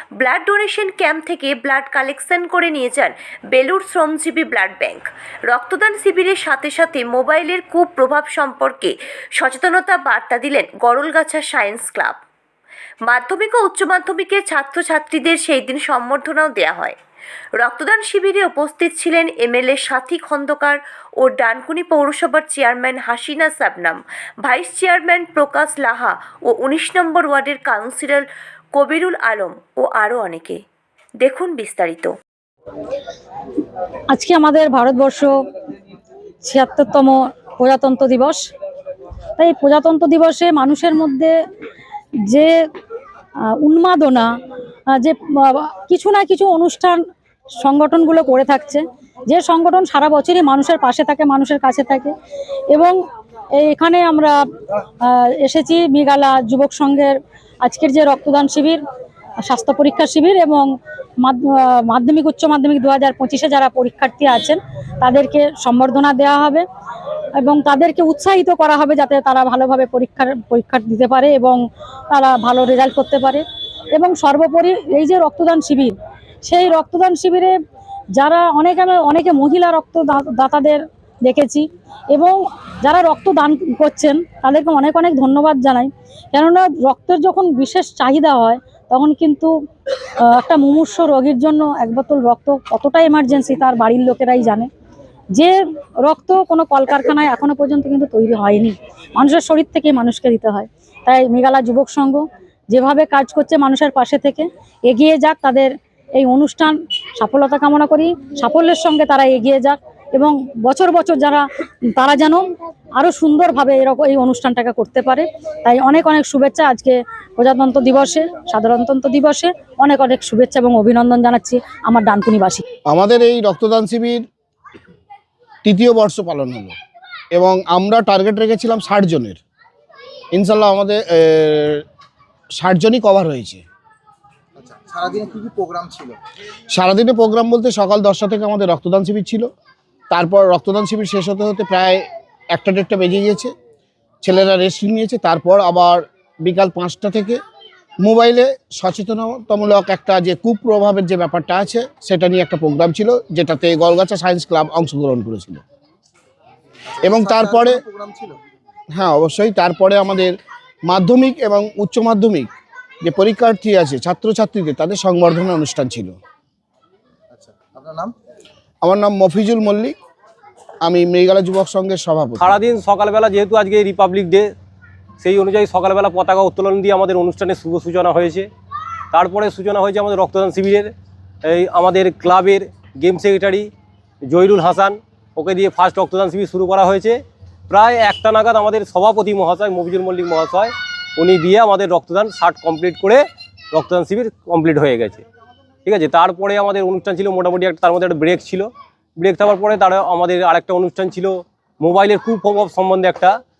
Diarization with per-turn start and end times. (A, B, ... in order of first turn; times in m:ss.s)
0:00.2-0:12.2 A
0:13.1-0:17.0 A
0:17.6-0:30.6 A
0:31.2-0:32.1 A
0:34.1-0:35.4 B
0:36.4-0:38.4 B
0:39.4-0:41.3 B
0:42.3-0:42.5 B
0:43.5-0:44.3 B
0:44.9-0:47.0 B
0:47.6-0:52.1 B
0:52.7-0:53.0 B
0:53.6-0:54.4 B
0:55.0-0:58.8 B
0:59.4-1:06.6 B
1:07.4-1:17.5 B
1:18.2-1:29.5 B
1:30.2-1:34.7 B
1:35.3-1:52.4 B
1:53.0-2:02.6 B
2:02.9-2:04.2 C
2:05.6-2:06.7 C
2:07.3-2:09.4 C
2:10.3-2:11.8 C
2:12.6-2:13.6 C
2:14.6-2:16.2 D
2:16.7-2:19.5 C
2:20.1-2:23.5 C
2:24.2-2:27.4 C
2:28.0-2:35.6 C
2:36.9-2:38.4 D
2:37.0-2:37.8 C
2:38.9-2:42.5 C
2:43.0-2:46.1 C
2:47.3-2:48.1 D
2:48.8-2:49.9 C
2:50.8-2:52.6 C
2:52.4-2:54.5 E
2:55.2-2:58.5 E
2:59.1-3:00.9 E
3:01.4-3:03.7 E
3:04.2-3:07.2 E
3:07.7-3:15.2 E
3:15.8-3:23.3 E